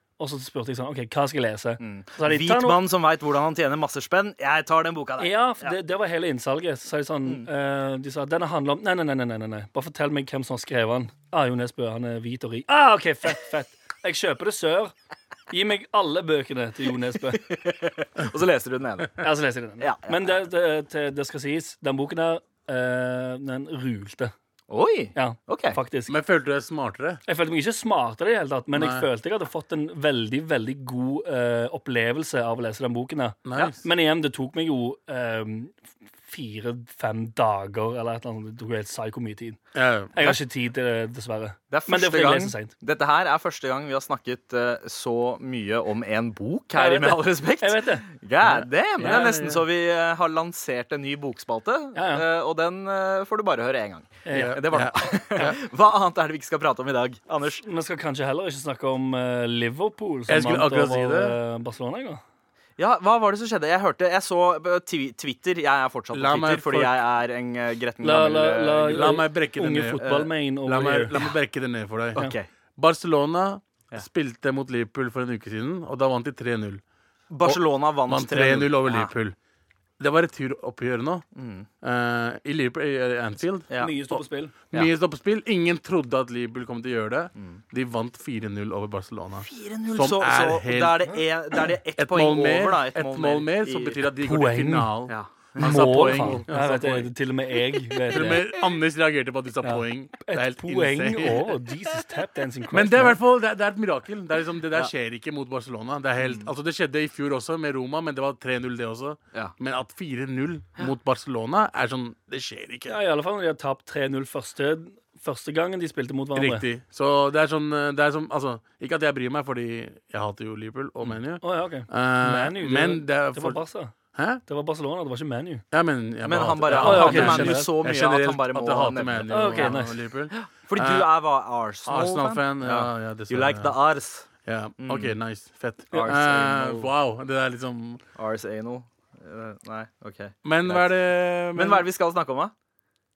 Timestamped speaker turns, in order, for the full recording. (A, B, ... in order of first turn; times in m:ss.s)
0:00.2-0:02.8 A
0:01.8-0:05.8 B
0:05.2-0:14.9 A
0:15.5-0:17.4 A
0:17.4-0:19.2 B
0:19.2-0:24.3 A
0:19.8-0:20.4 B
0:24.7-0:25.8 B
0:25.2-0:26.2 A
0:26.1-0:27.2 C
0:27.3-0:39.6 A
0:28.7-0:29.1 C
0:33.4-0:33.8 C
0:39.7-0:40.4 C
0:40.1-0:42.7 A
0:41.7-0:57.6 B
0:46.8-0:48.1 A
0:48.4-0:49.6 C
0:52.0-0:52.2 A
0:54.3-0:55.6 A
0:54.3-0:55.6 C
0:57.6-1:02.2 A
1:00.3-1:01.4 C
1:02.8-1:09.2 B
1:06.1-1:07.0 C
1:08.0-1:11.2 A
1:08.9-1:12.2 C
1:10.0-1:10.3 B
1:12.2-1:12.5 B
1:12.8-1:16.8 C
1:17.3-1:19.1 B
1:17.4-1:19.4 C
1:20.0-1:21.2 C
1:21.4-1:21.7 B
1:21.8-1:31.0 C
1:23.8-1:24.5 A
1:29.4-1:34.0 B
1:32.0-1:37.1 C
1:34.2-1:34.9 A
1:35.1-1:36.5 B
1:35.6-1:38.4 A
1:38.1-1:38.4 B
1:38.1-1:41.6 C
1:39.6-1:43.2 A
1:42.7-1:53.0 C
1:46.2-1:46.5 B
1:52.9-1:56.6 A
1:56.4-2:03.6 C
2:01.4-2:03.9 A
2:04.1-2:04.4 C
2:04.5-2:05.6 A
2:05.7-2:11.1 C
2:06.2-2:14.3 B
2:06.8-2:07.7 A
2:09.3-2:10.0 A
2:11.8-2:13.7 C
2:14.5-2:18.0 C
2:14.8-2:15.2 B
2:15.9-2:16.9 B
2:18.2-2:22.5 B
2:20.4-2:21.8 C